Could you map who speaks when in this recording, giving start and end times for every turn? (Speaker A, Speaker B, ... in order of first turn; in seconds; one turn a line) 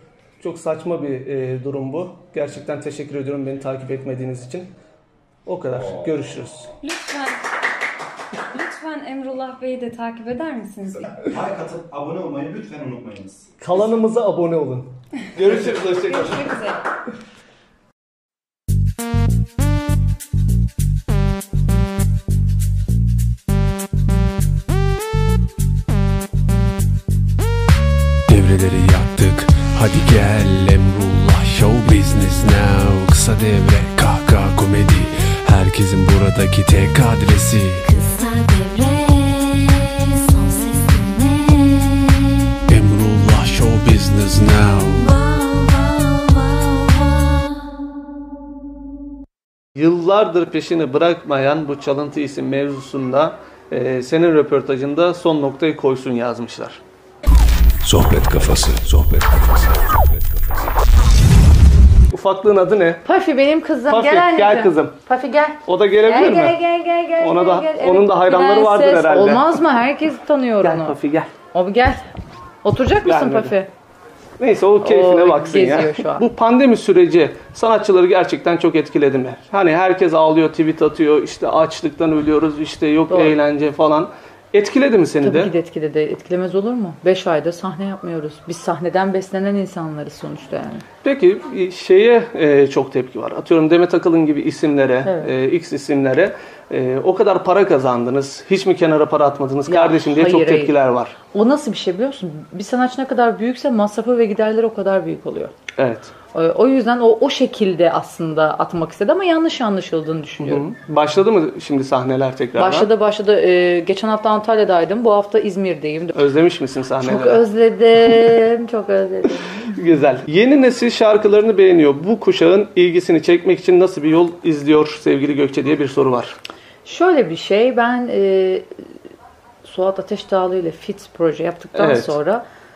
Speaker A: 0.4-4.7
Speaker A: 5.5-6.7
Speaker B: 6.8-7.5
Speaker B: 8.5-11.2
Speaker C: 11.2-13.5
Speaker A: 13.6-16.5
Speaker B: 15.6-16.9
Speaker D: 28.3-37.9
Speaker E: 37.8-42.3
Speaker D: 42.7-45.1
Speaker E: 45.0-47.6
Speaker A: 49.8-56.8
Speaker F: 57.8-60.8
Speaker A: 62.1-63.1
Speaker G: 63.0-71.0
Speaker A: 63.9-65.0
Speaker A: 65.7-66.6
Speaker A: 67.2-69.6
Speaker A: 70.6-71.3
Speaker G: 71.5-72.1
Speaker G: 72.6-73.7
Speaker A: 73.0-73.6
Speaker A: 74.4-85.5
Speaker G: 74.8-76.3
Speaker G: 83.1-83.3
Speaker G: 85.2-90.8
Speaker A: 91.0-101.2
Speaker G: 95.0-95.3
Speaker G: 99.7-100.8
Speaker G: 101.3-105.5
Speaker A: 105.8-106.1
Speaker G: 106.3-110.7
Speaker A: 110.4-112.9
Speaker G: 112.6-116.2
Speaker A: 116.1-117.5
Speaker G: 117.0-119.8
Speaker A: 119.8-126.4
Speaker G: 126.8-128.7
Speaker G: 129.6-132.4
Speaker A: 131.7-132.2